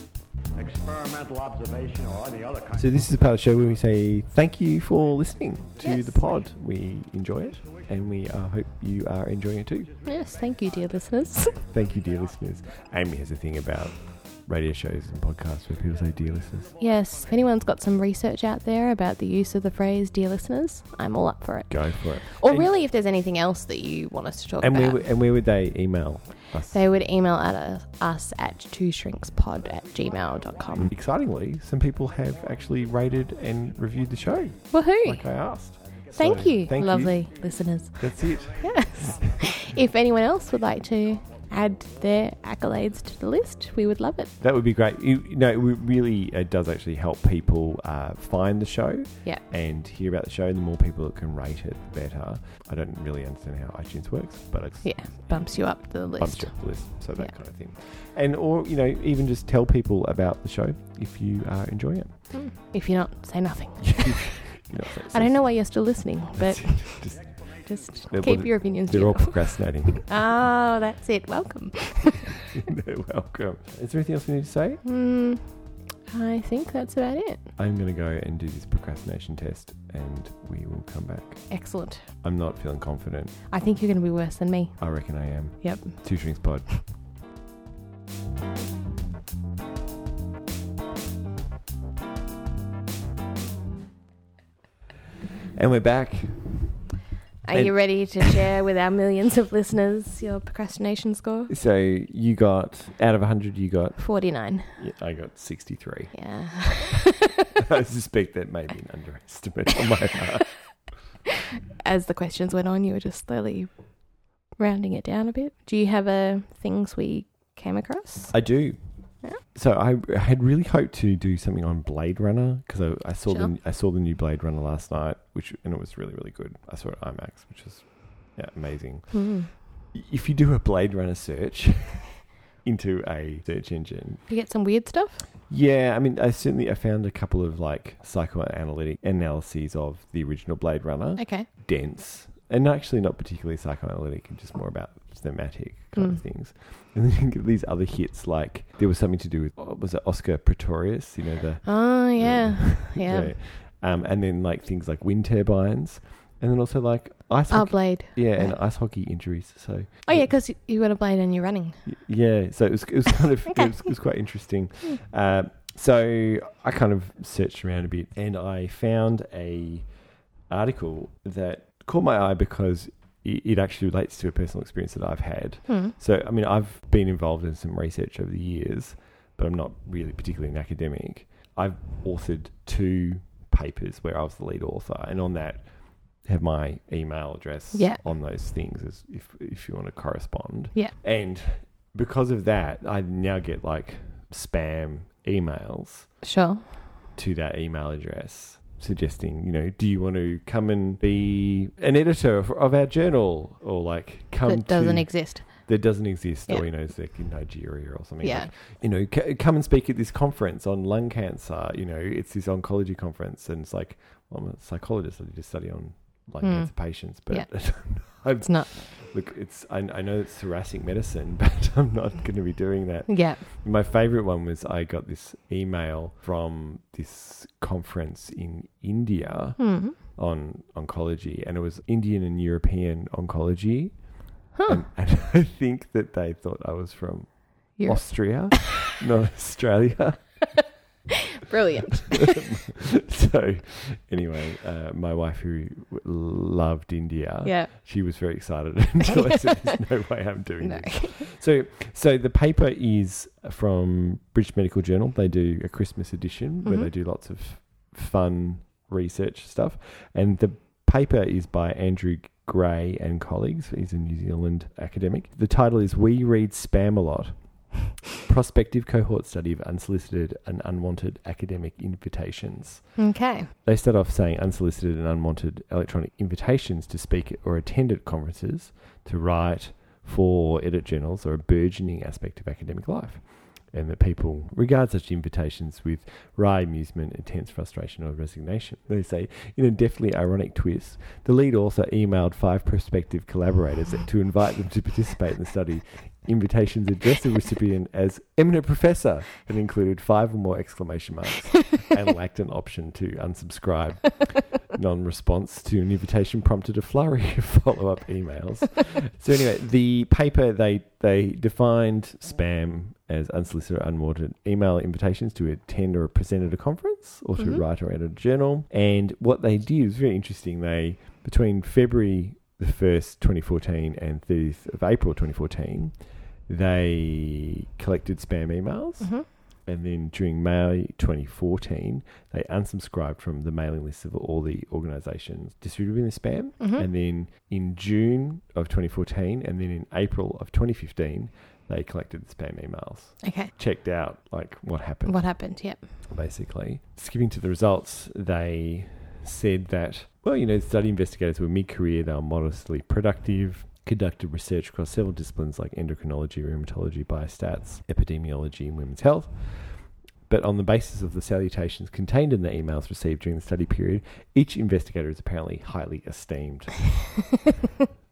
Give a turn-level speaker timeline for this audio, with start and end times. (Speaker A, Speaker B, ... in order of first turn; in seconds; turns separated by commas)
Speaker A: 0.5-3.3, Speaker B: 2.8-9.9, Speaker A: 5.8-6.2, Speaker C: 5.8-6.2, Speaker A: 7.6-7.8, Speaker A: 9.9-12.1, Speaker C: 10.0-11.6, Speaker B: 11.7-16.8, Speaker C: 16.8-25.1, Speaker B: 21.7-22.7, Speaker B: 24.6-26.8, Speaker C: 26.7-30.9, Speaker A: 29.8-30.9, Speaker B: 30.8-37.2, Speaker C: 34.7-35.4, Speaker A: 35.8-39.2, Speaker C: 36.1-44.3, Speaker B: 38.0-39.2, Speaker B: 44.4-62.3, Speaker C: 54.8-57.3, Speaker C: 62.3-72.4, Speaker B: 63.8-67.5, Speaker A: 67.3-68.5, Speaker B: 68.0-70.1, Speaker B: 72.5-74.8, Speaker C: 74.8-77.4, Speaker B: 77.6-81.7, Speaker C: 81.5-82.1, Speaker B: 82.2-83.4, Speaker C: 83.5-86.4, Speaker B: 84.8-86.9, Speaker B: 95.5-96.9, Speaker C: 97.4-101.5, Speaker B: 97.5-98.5, Speaker B: 101.5-106.8, Speaker C: 104.0-104.8, Speaker C: 106.1-107.3, Speaker B: 107.6-110.9, Speaker C: 111.8-118.6, Speaker B: 118.3-134.3, Speaker C: 123.3-123.5, Speaker C: 129.1-129.5, Speaker C: 134.3-135.3, Speaker B: 135.5-160.4, Speaker C: 141.2-141.5, Speaker C: 145.9-146.2, Speaker C: 151.6-153.3, Speaker C: 157.5-158.6, Speaker C: 160.1-161.8, Speaker B: 161.8-169.9, Speaker B: 170.5-196.2, Speaker C: 175.7-175.9, Speaker C: 187.7-188.0, Speaker C: 196.2-196.8, Speaker B: 197.1-240.4, Speaker C: 204.4-205.8, Speaker C: 208.2-208.5, Speaker C: 216.4-218.8, Speaker C: 223.1-223.4, Speaker C: 229.6-230.0, Speaker C: 234.5-234.8, Speaker C: 237.8-238.7, Speaker C: 241.4-242.4, Speaker B: 242.3-273.1, Speaker C: 247.4-247.7, Speaker C: 250.6-251.3, Speaker C: 256.6-256.9, Speaker C: 273.0-273.5, Speaker B: 273.6-367.1, Speaker C: 317.4-317.6, Speaker C: 329.0-329.3, Speaker C: 336.6-336.9, Speaker C: 343.2-343.5, Speaker C: 345.0-345.9